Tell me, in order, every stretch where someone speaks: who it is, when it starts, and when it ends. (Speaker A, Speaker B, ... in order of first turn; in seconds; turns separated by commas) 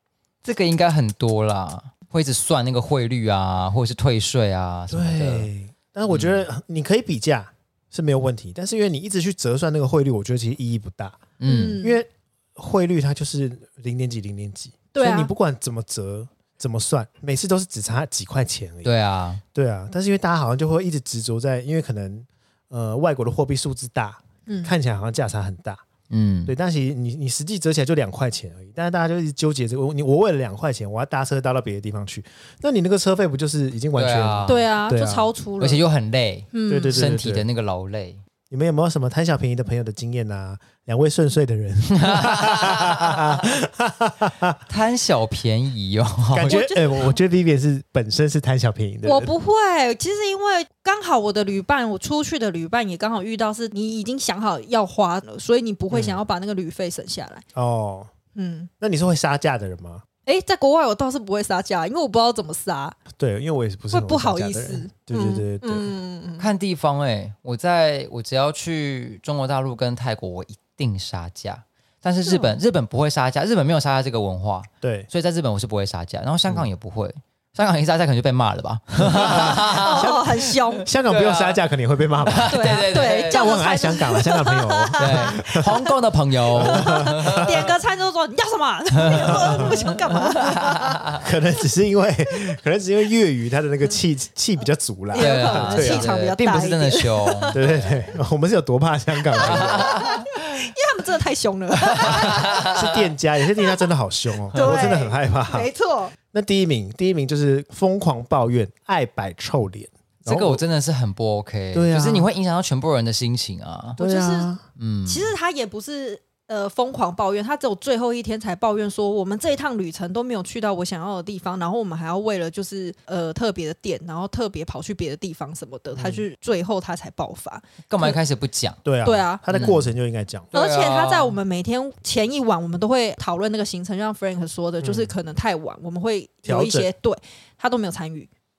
Speaker A: 0.4-5.5, Speaker B: 4.9-18.9, Speaker A: 6.1-6.4, Speaker A: 11.4-11.8, Speaker C: 11.4-12.0, Speaker C: 14.9-15.3, Speaker A: 18.8-19.4, Speaker B: 19.5-25.8, Speaker C: 24.5-24.7, Speaker A: 26.1-26.5, Speaker B: 26.4-35.3, Speaker A: 34.0-34.6, Speaker C: 34.5-35.8, Speaker A: 35.6-38.2, Speaker C: 36.5-37.0, Speaker B: 36.7-37.5, Speaker B: 38.5-44.6, Speaker A: 41.9-43.2, Speaker A: 44.7-46.6, Speaker B: 46.3-49.3, Speaker C: 46.5-47.1, Speaker C: 49.0-57.4, Speaker B: 55.9-56.2, Speaker B: 57.5-58.1, Speaker C: 58.3-58.7, Speaker B: 58.8-60.0, Speaker C: 60.2-63.0, Speaker B: 63.2-65.9, Speaker C: 63.9-66.5, Speaker A: 66.4-80.5, Speaker C: 72.2-72.5, Speaker B: 74.8-75.1, Speaker B: 79.0-85.7, Speaker C: 79.2-80.9, Speaker A: 81.0-81.6, Speaker A: 82.2-83.5, Speaker C: 82.5-85.9, Speaker A: 85.0-87.7, Speaker B: 86.5-87.7, Speaker C: 86.6-91.0, Speaker A: 89.0-91.2, Speaker B: 89.2-89.8, Speaker B: 91.2-96.1, Speaker C: 95.1-97.6, Speaker A: 95.1-97.9, Speaker B: 97.5-100.1, Speaker C: 99.4-102.8, Speaker A: 99.4-100.6, Speaker A: 101.8-103.0, Speaker B: 102.0-105.7, Speaker C: 103.5-103.8, Speaker C: 104.5-106.1, Speaker B: 106.3-110.6, Speaker A: 110.2-114.0, Speaker B: 111.7-112.3, Speaker C: 114.0-114.5, Speaker B: 114.0-114.6, Speaker A: 114.8-115.3, Speaker C: 115.0-128.2, Speaker B: 126.0-126.2, Speaker A: 127.9-128.8, Speaker B: 128.8-130.5, Speaker C: 129.0-129.7, Speaker A: 129.5-129.9, Speaker A: 130.5-131.4, Speaker C: 130.5-138.3, Speaker B: 134.8-135.1, Speaker B: 136.4-136.9